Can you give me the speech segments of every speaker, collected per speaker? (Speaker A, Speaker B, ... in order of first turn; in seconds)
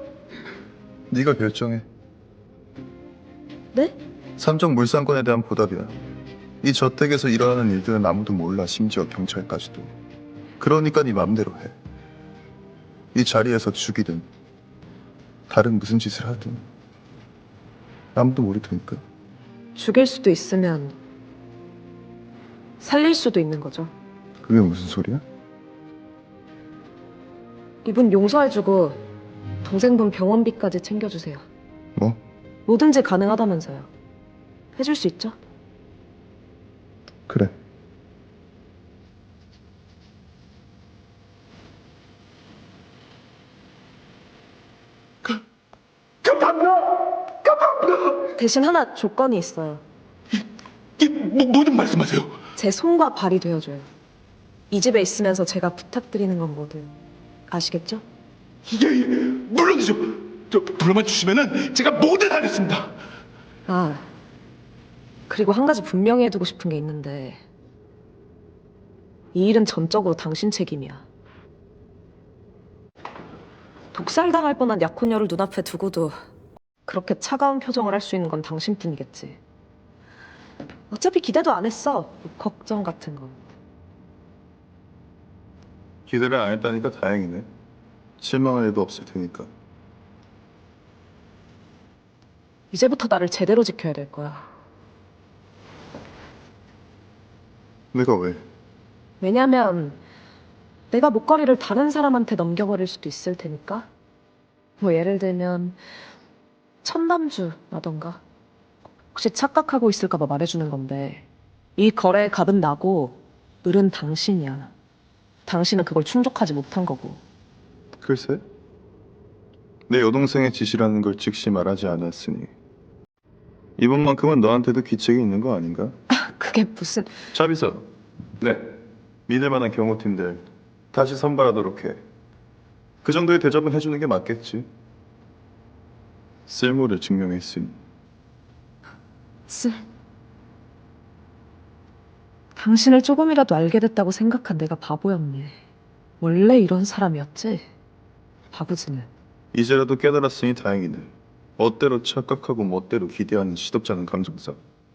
Speaker A: 1.1-1.8, 4.4-5.9, 6.6-9.9, 10.6-11.7, 13.1-14.2, 15.5-16.6, 18.1-19.0, 24.4-25.2, 86.1-87.5, 88.2-89.5, 97.9-98.4, 118.0-118.4, 119.9-122.5, 123.8-125.9, 127.3-127.8, 128.4-128.7, 129.3-132.0, 133.0-134.7, 136.5-137.8, 149.5-154.6
Speaker B: 19.8-20.9, 22.8-23.9, 27.8-29.0, 29.6-31.4, 32.7-33.9, 34.8-35.4, 48.2-49.8, 52.5-53.9, 54.7-56.9, 57.5-58.0, 63.7-64.0, 65.3-67.4, 69.3-71.0, 73.9-76.1, 76.8-79.4, 80.9-83.4, 92.7-94.5, 99.2-100.0, 100.9-103.9, 104.8-105.8, 106.8-108.2, 109.1-111.2, 111.8-114.7, 115.5-117.2, 126.1-127.1, 139.5-139.8, 142.6-145.6, 146.2-147.6, 148.5-149.1
Speaker C: 46.3-46.6, 51.0-52.3, 58.7-62.9